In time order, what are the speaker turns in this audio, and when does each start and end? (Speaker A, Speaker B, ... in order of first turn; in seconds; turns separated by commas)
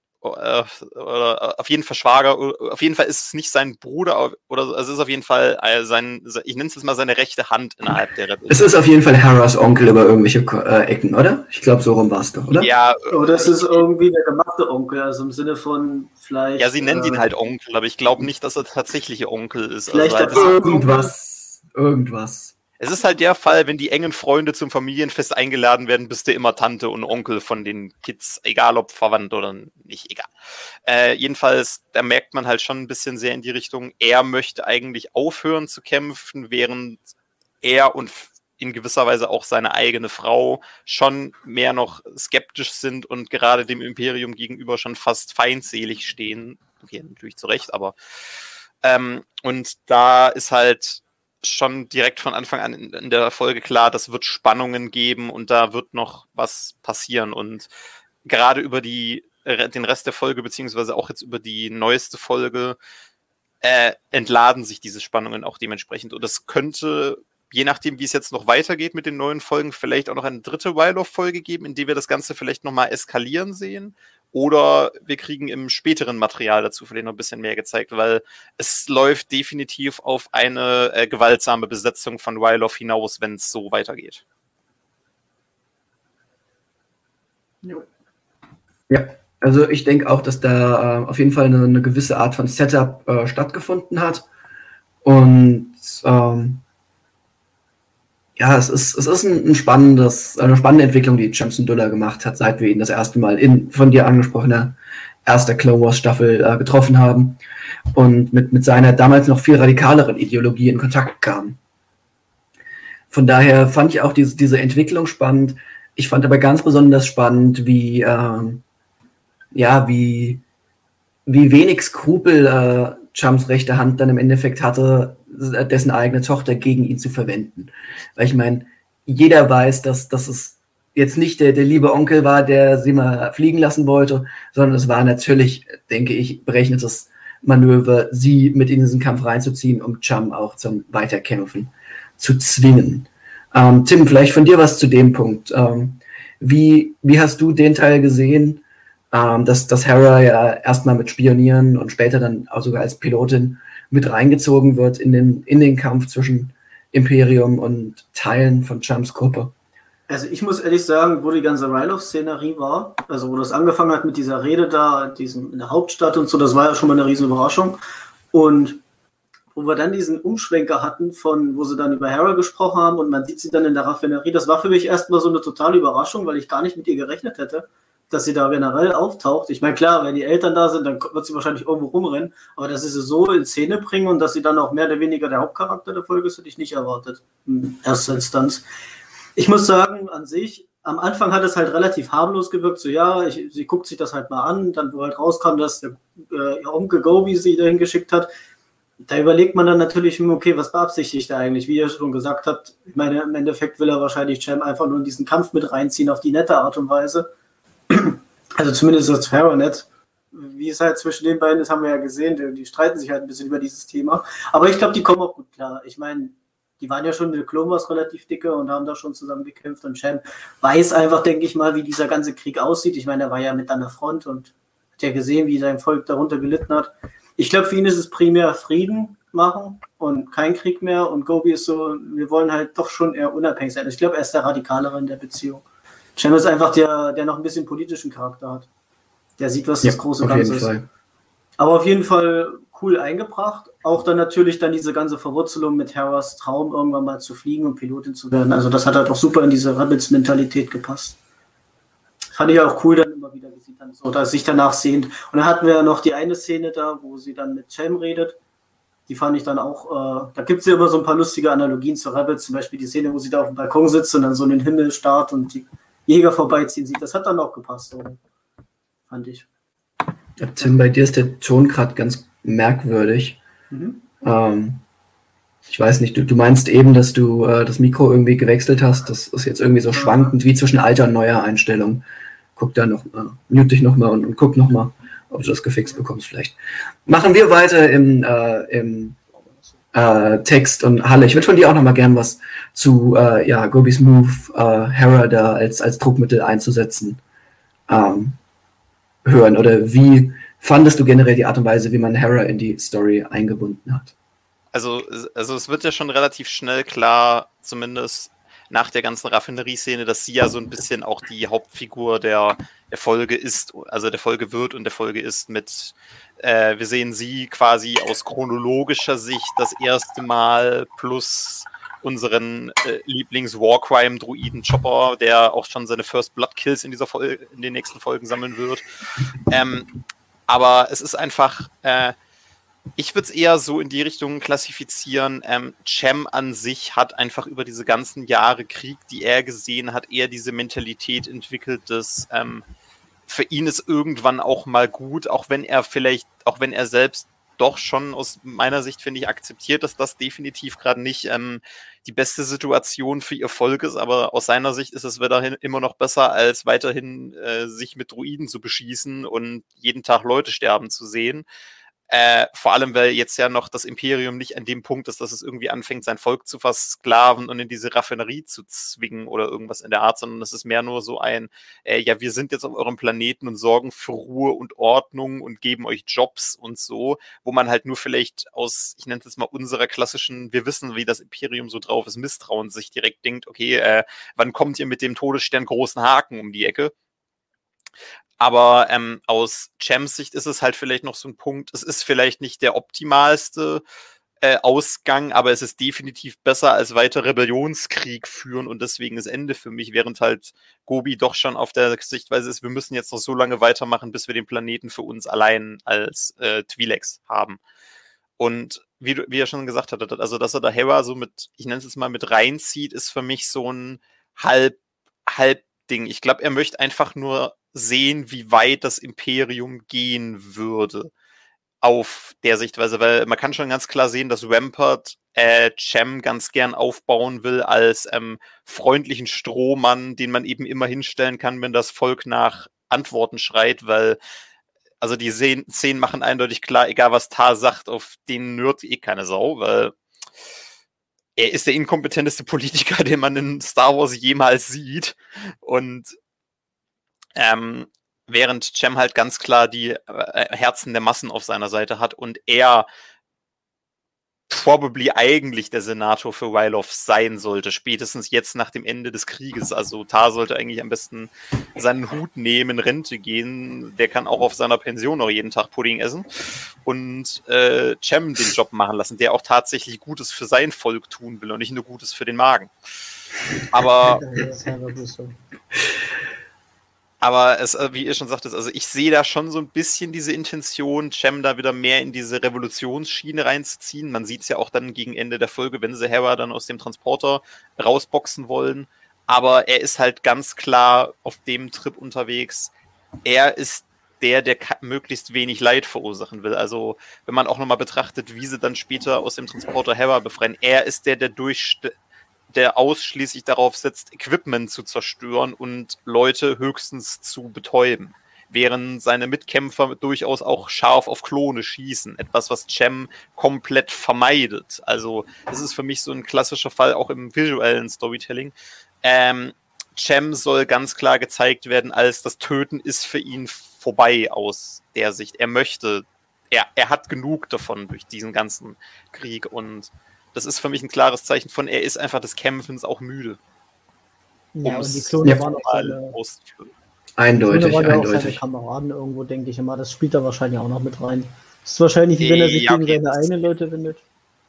Speaker A: 0.2-8.7, Speaker B: 8.5-12.7, Speaker A: 12.6-13.8, Speaker C: 13.1-17.3, Speaker A: 16.6-20.6, Speaker C: 19.9-21.1, Speaker B: 20.3-22.5, Speaker A: 22.8-30.3, Speaker A: 30.9-37.0, Speaker A: 37.6-48.0, Speaker A: 48.8-57.7, Speaker A: 58.2-62.8, Speaker A: 63.6-84.2, Speaker B: 88.9-94.3, Speaker B: 95.0-96.6, Speaker B: 98.4-107.4, Speaker B: 107.9-111.6, Speaker B: 113.1-118.6, Speaker B: 119.5-120.4, Speaker B: 121.3-159.5, Speaker C: 160.1-167.8, Speaker C: 168.3-168.8, Speaker C: 169.6-188.6, Speaker C: 189.4-198.3, Speaker C: 199.0-207.3, Speaker C: 207.9-235.6, Speaker C: 236.2-238.7, Speaker C: 239.4-240.7, Speaker B: 239.8-240.9, Speaker C: 241.6-251.2, Speaker C: 252.3-258.4, Speaker C: 259.1-268.2, Speaker C: 269.1-269.5, Speaker B: 270.4-273.4, Speaker C: 273.7-274.0, Speaker B: 274.2-274.8, Speaker B: 275.7-282.1, Speaker C: 279.9-280.3, Speaker B: 282.6-289.2, Speaker C: 289.4-289.7, Speaker B: 289.9-297.2, Speaker B: 297.9-298.4, Speaker B: 299.2-304.1, Speaker A: 304.7-328.8, Speaker A: 329.5-329.9, Speaker A: 330.5-332.1, Speaker A: 333.0-342.6, Speaker A: 343.3-361.5, Speaker A: 362.1-386.9, Speaker A: 388.4-393.8, Speaker A: 394.4-407.6, Speaker A: 408.4-421.1, Speaker A: 421.8-434.2, Speaker A: 435.0-439.9, Speaker A: 441.4-446.1, Speaker A: 447.4-452.9, Speaker A: 454.5-466.3, Speaker A: 466.8-472.7, Speaker A: 473.7-474.3, Speaker C: 474.0-475.4, Speaker A: 477.2-492.7, Speaker A: 493.2-501.9, Speaker A: 502.5-533.4, Speaker C: 534.5-536.1, Speaker A: 534.6-536.7, Speaker B: 537.2-538.4, Speaker C: 537.5-544.0, Speaker A: 542.2-543.5